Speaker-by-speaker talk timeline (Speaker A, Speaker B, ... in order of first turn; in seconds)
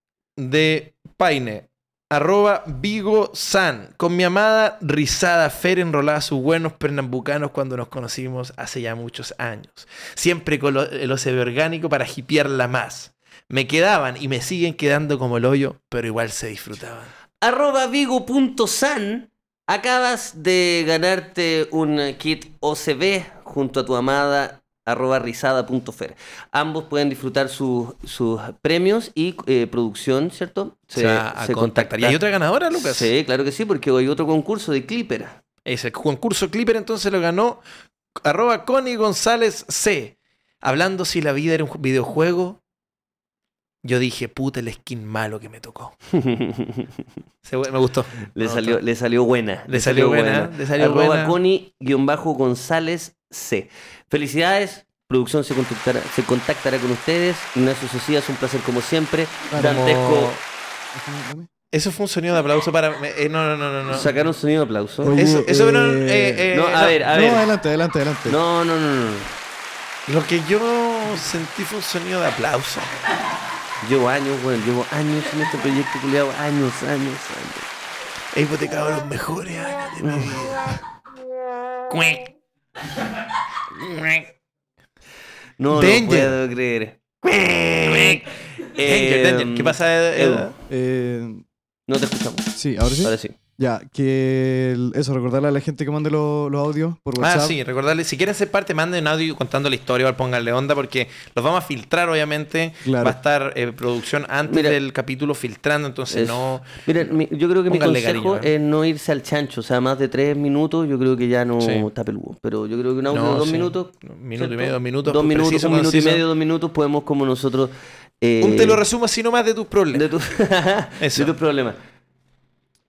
Speaker A: 0.4-17.1, 30.9-33.1, 35.6-37.6, 38.2-42.6, 43.8-45.9, 47.4-48.8, 49.7-51.4, 59.6-60.4, 61.7-64.1, 65.1-67.0, 70.1-72.9, 78.3-80.8, 81.9-82.3, 83.7-84.3, 85.7-86.3, 87.2-88.2, 88.8-90.5, 97.2-106.8, 107.7-108.5, 111.6-111.9, 113.1-116.2, 118.4-120.1, 121.0-121.3
Speaker B: 17.4-32.2, 32.7-35.4, 46.1-47.0, 48.4-60.4, 63.9-65.2, 66.5-67.5, 68.3-69.3, 73.8-77.7, 80.0-80.6, 85.6-90.5, 91.9-93.3, 104.5-104.8, 106.1-118.8, 119.9-121.8
Speaker C: 60.9-61.5, 65.0-66.5, 67.1-68.4, 90.7-91.4, 92.5-97.5, 102.8-103.2